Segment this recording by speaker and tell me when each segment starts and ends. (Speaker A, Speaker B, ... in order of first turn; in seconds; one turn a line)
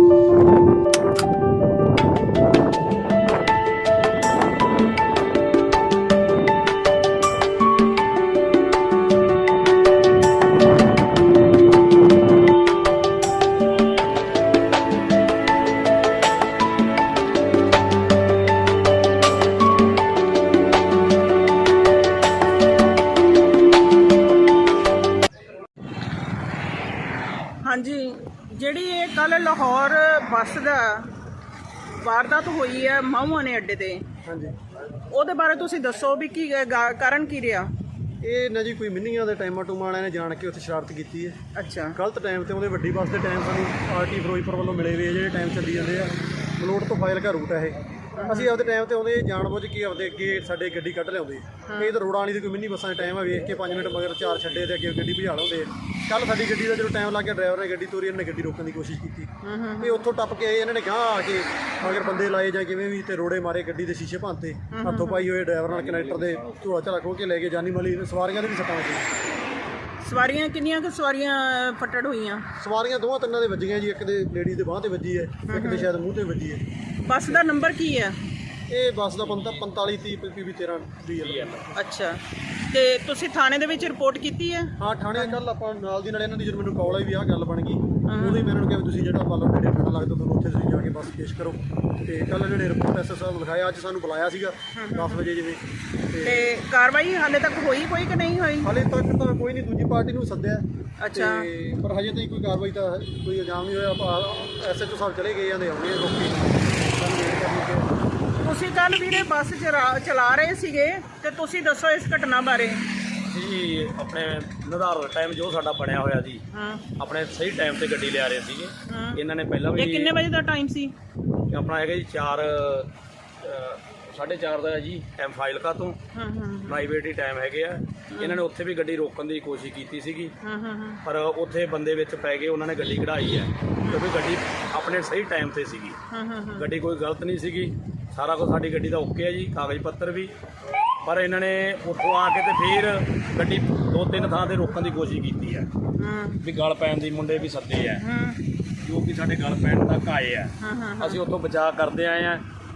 Speaker A: 27.6-31.1
Speaker A: 32.0-34.0
Speaker B: 34.2-34.5
Speaker A: 35.1-37.7
Speaker B: 38.2-41.4
Speaker A: 41.5-42.0
Speaker B: 41.9-69.1
Speaker A: 48.2-48.5
Speaker A: 51.7-51.9
Speaker A: 59.4-60.0
Speaker A: 64.7-65.3
Speaker C: 65.8-66.4
Speaker A: 70.0-72.4
Speaker B: 72.6-76.6
Speaker A: 75.5-75.9
Speaker A: 77.0-78.2
Speaker B: 78.7-81.7
Speaker C: 81.2-81.7
Speaker A: 81.7-85.3
Speaker B: 84.8-96.5
Speaker A: 88.1-88.5
Speaker A: 94.8-95.2
Speaker A: 96.2-98.7
Speaker B: 98.6-107.9
Speaker A: 101.0-101.5
Speaker A: 108.4-112.8
Speaker C: 113.3-116.4
Speaker A: 116.5-116.8
Speaker C: 117.0-120.1
Speaker A: 118.9-119.2
Speaker A: 119.7-120.9
Speaker C: 121.5-122.9
Speaker C: 123.4-126.0
Speaker A: 126.1-126.8
Speaker C: 126.7-130.3
Speaker A: 128.1-128.4
Speaker A: 130.4-131.0
Speaker C: 131.0-136.0
Speaker A: 136.1-136.7
Speaker C: 136.5-140.3
Speaker C: 141.0-145.7
Speaker A: 146.0-146.4
Speaker C: 146.4-148.0
Speaker A: 148.0-148.4
Speaker C: 148.8-152.4
Speaker A: 150.6-151.2